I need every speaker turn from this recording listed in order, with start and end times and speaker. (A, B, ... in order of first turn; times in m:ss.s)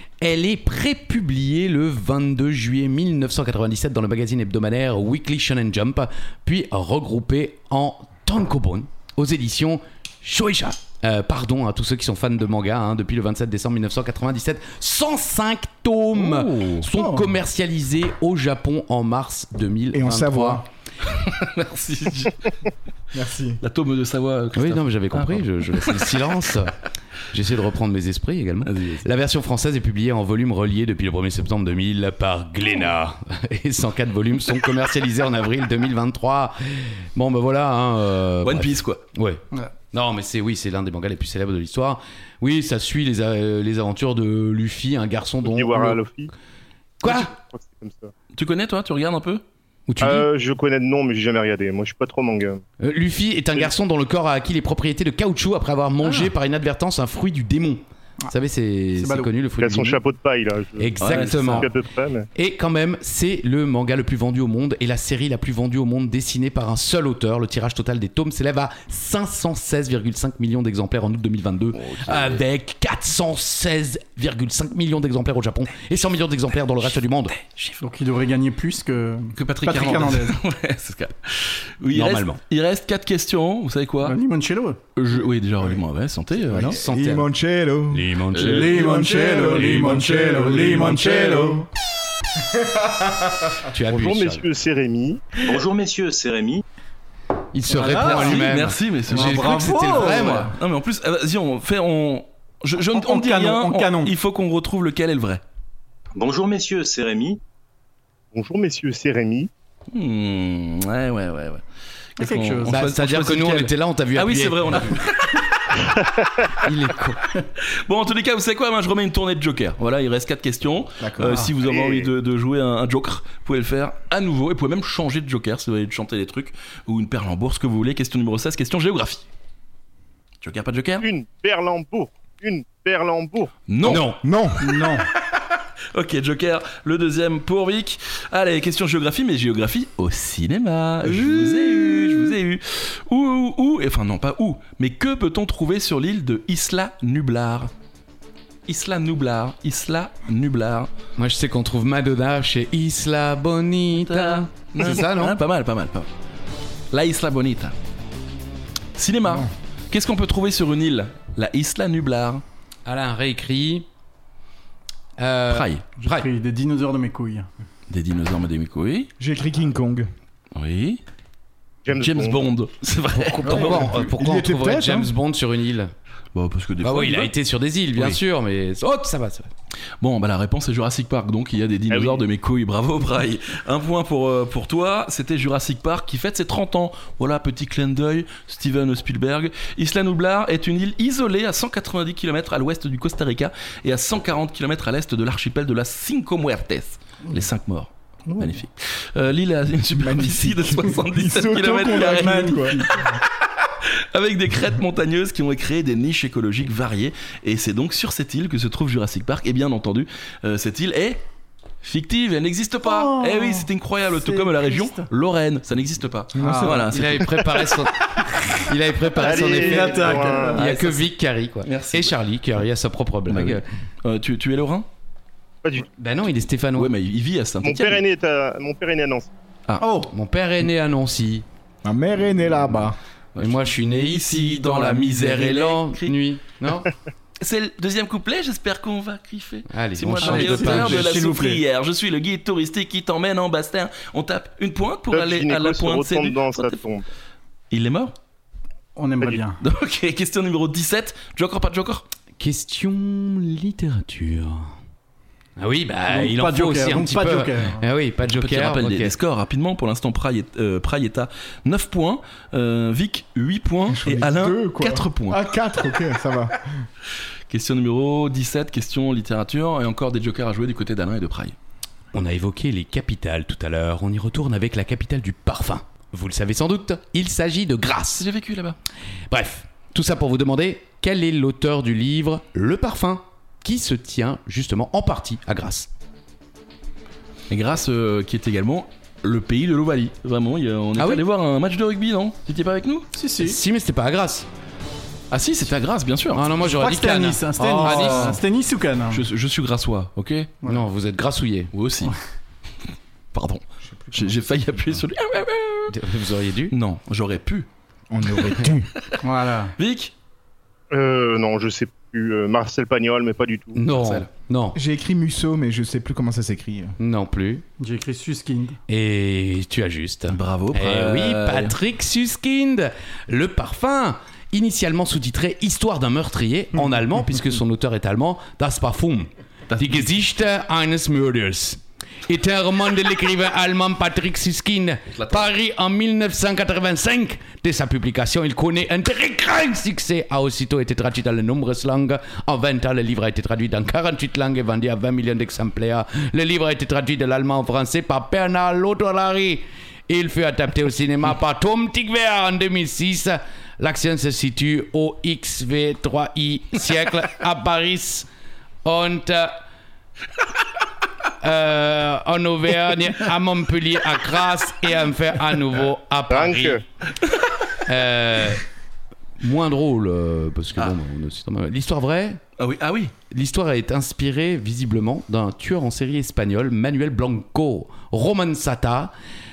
0:00.2-0:20.6 A
0:17.0-0:17.2 B
0:19.9-0:20.7 C
0:21.0-0:22.5 D
0:23.1-0:23.6 C
0:23.6-0:26.5 D
0:24.6-0:26.8 A
0:27.3-0:46.0 A
0:28.6-0:29.0 D
0:38.4-0:39.0 D
0:45.5-0:46.3 E
0:47.0-0:47.3 A
0:47.0-0:48.1 E
0:48.3-0:49.4 D
0:49.9-0:50.3 A
0:50.0-0:52.6 E
0:52.8-1:00.0 A
0:56.0-0:56.3 D
0:59.0-0:59.3 B
0:59.6-1:02.3 E
1:00.8-1:01.7 A
1:01.0-1:01.7 D
1:02.4-1:17.4 A
1:11.7-1:12.4 D
1:17.8-1:20.4 B
1:19.4-1:24.2 D
1:21.9-1:22.4 A
1:24.0-1:24.8 B
1:25.0-1:26.8 D
1:26.5-1:31.7 C
1:26.6-1:27.3 A
1:27.9-1:29.0 A
1:28.3-1:28.8 D
1:28.4-1:31.7 B
1:32.5-1:33.5 C
1:33.7-1:34.5 A
1:33.9-1:35.4 E
1:35.4-1:36.6 F
1:37.5-1:40.5 A
1:37.7-1:38.5 B
1:37.8-1:45.4 D
1:39.1-1:40.5 B
1:42.8-1:44.1 B
1:46.2-1:47.4 F
1:48.3-1:49.5 E
1:49.9-1:51.6 D
1:52.2-1:55.8 D
1:52.2-1:53.0 B
1:52.7-1:55.0 A
1:56.6-1:57.2 A
1:57.9-2:09.2 D
2:01.0-2:01.4 C
2:01.3-2:01.5 B
2:01.6-2:02.1 E
2:10.4-2:11.1 D
2:11.0-2:13.5 E
2:13.7-2:14.1 D
2:13.8-2:14.2 A
2:14.2-2:14.6 C
2:14.6-2:15.1 B
2:15.3-2:27.7 D
2:21.3-2:22.1 B
2:28.7-2:30.9 D
2:31.2-2:35.4 A
2:34.0-2:36.1 D
2:36.9-2:37.8 D
2:39.0-2:42.4 D
2:42.9-2:43.9 A
2:45.2-2:46.3 A
2:45.5-2:45.8 D
2:46.0-2:47.5 B
2:47.9-2:49.1 D
2:49.2-2:50.1 C
2:50.6-2:51.0 D
2:51.8-2:52.5 E
2:52.0-2:54.0 D
2:53.1-2:55.9 A
2:53.4-2:55.1 C
2:56.4-2:57.3 D
2:56.8-2:59.5 A
3:00.0-3:31.2 D
3:01.9-3:02.2 E
3:18.3-3:18.5 B
3:20.0-3:23.0 C
3:21.8-3:22.9 B
3:31.8-3:37.3 D
3:32.8-3:35.1 B
3:36.4-3:36.9 C
3:36.4-3:36.8 B
3:36.4-3:43.6 A
3:39.2-3:40.6 B
3:39.2-3:40.6 E
3:40.5-3:41.1 D
3:41.6-3:42.2 D
3:43.3-3:44.9 D
3:46.0-3:46.9 A
3:46.8-3:48.0 D
3:47.6-3:49.3 E
3:49.8-3:50.1 B
3:50.1-3:51.5 A
3:51.8-3:53.0 C
3:53.4-3:56.2 D
3:53.4-3:56.9 A
3:57.4-4:06.8 D
3:59.7-4:01.1 A
4:00.2-4:01.6 B
4:05.1-4:07.0 E
4:07.7-4:08.2 D
4:09.0-4:09.6 B
4:09.2-4:12.1 D
4:12.4-4:14.7 A
4:15.6-4:19.2 A
4:16.1-4:17.8 B
4:18.3-4:25.4 D
4:23.9-4:26.7 C
4:27.5-4:31.6 D
4:32.1-4:38.3 A
4:38.2-4:38.8 D
4:39.3-4:45.9 A
4:47.5-4:53.1 D
4:51.0-4:51.2 A
4:53.2-4:53.6 B
4:53.4-4:54.5 A
4:55.3-4:56.5 D
4:56.3-4:58.4 A
4:56.6-4:59.2 B
4:57.8-4:58.4 D
4:59.1-5:00.5 D
5:00.6-5:01.7 A
5:01.7-5:02.2 D
5:03.3-5:06.0 D
5:03.8-5:04.7 C
5:05.9-5:06.7 A
5:06.7-5:07.7 D
5:08.1-5:08.9 C
5:09.2-5:09.8 B
5:09.8-5:10.1 D
5:10.9-5:13.8 E
5:13.8-5:14.8 A
5:13.9-5:14.3 D
5:14.8-5:17.0 C
5:17.0-5:17.6 A
5:17.8-5:18.8 B
5:18.9-5:58.3 A
5:20.3-5:21.8 D
5:29.7-5:30.1 D
5:35.1-5:35.5 D
5:58.8-5:59.6 A
6:01.4-6:06.8 A
6:06.3-6:06.8 E
6:07.8-6:08.6 A
6:09.4-6:12.4 A
6:12.6-6:13.1 D
6:13.3-6:19.1 A